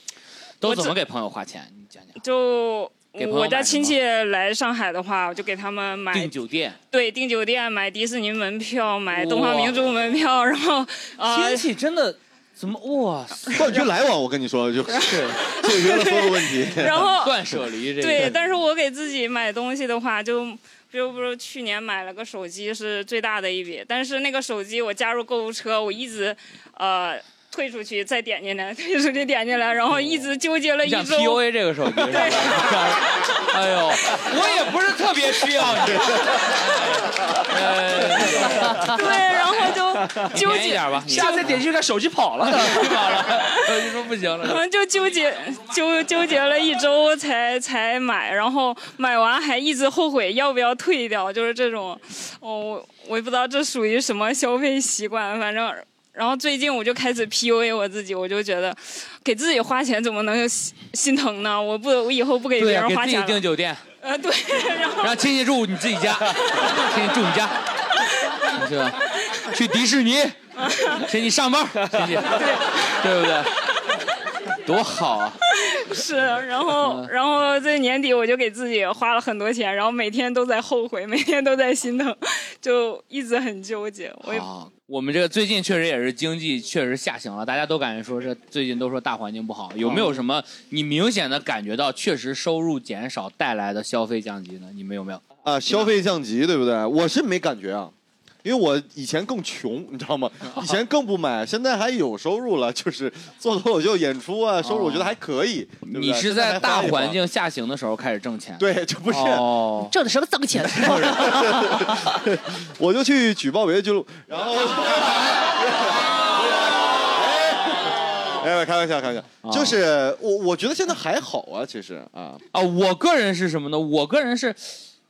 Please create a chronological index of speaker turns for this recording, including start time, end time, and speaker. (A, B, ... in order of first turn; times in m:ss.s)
0:00.6-0:02.2 A
0:00.6-0:00.9 B
0:02.2-0:06.3 B
0:03.2-0:04.0 A
0:06.1-0:06.8 A
0:06.9-0:11.6 B
0:09.1-0:09.9 A
0:11.3-0:13.9 A
0:13.5-0:17.1 C
0:15.0-0:15.4 A
0:15.6-0:17.3 B
0:17.2-0:18.4 A
0:18.0-0:31.4 B
0:30.8-0:39.0 A
0:32.1-0:32.6 B
0:38.9-0:41.0 B
0:40.0-0:40.4 D
0:40.3-0:41.6 A
0:41.0-0:42.9 D
0:42.5-0:44.6 A
0:44.4-1:03.4 B
1:02.6-1:03.8 A
1:04.0-1:05.2 B
1:05.0-1:07.6 A
1:08.6-1:09.0 A
1:09.5-1:10.4 A
1:10.6-1:11.0 B
1:11.0-1:13.5 A
1:12.4-1:12.8 B
1:14.6-1:15.4 A
1:15.6-1:24.4 B
1:16.8-1:17.1 A
1:24.2-1:35.2 A
1:29.8-1:30.2 C
1:35.4-1:37.9 C
1:38.4-1:47.2 C
1:44.6-1:45.1 A
1:45.9-1:49.9 A
1:48.6-1:49.4 C
1:49.9-1:51.9 E
1:50.8-1:56.0 C
1:57.0-1:57.8 C
1:58.3-2:02.4 C
1:59.4-1:59.8 A
2:02.5-2:04.8 A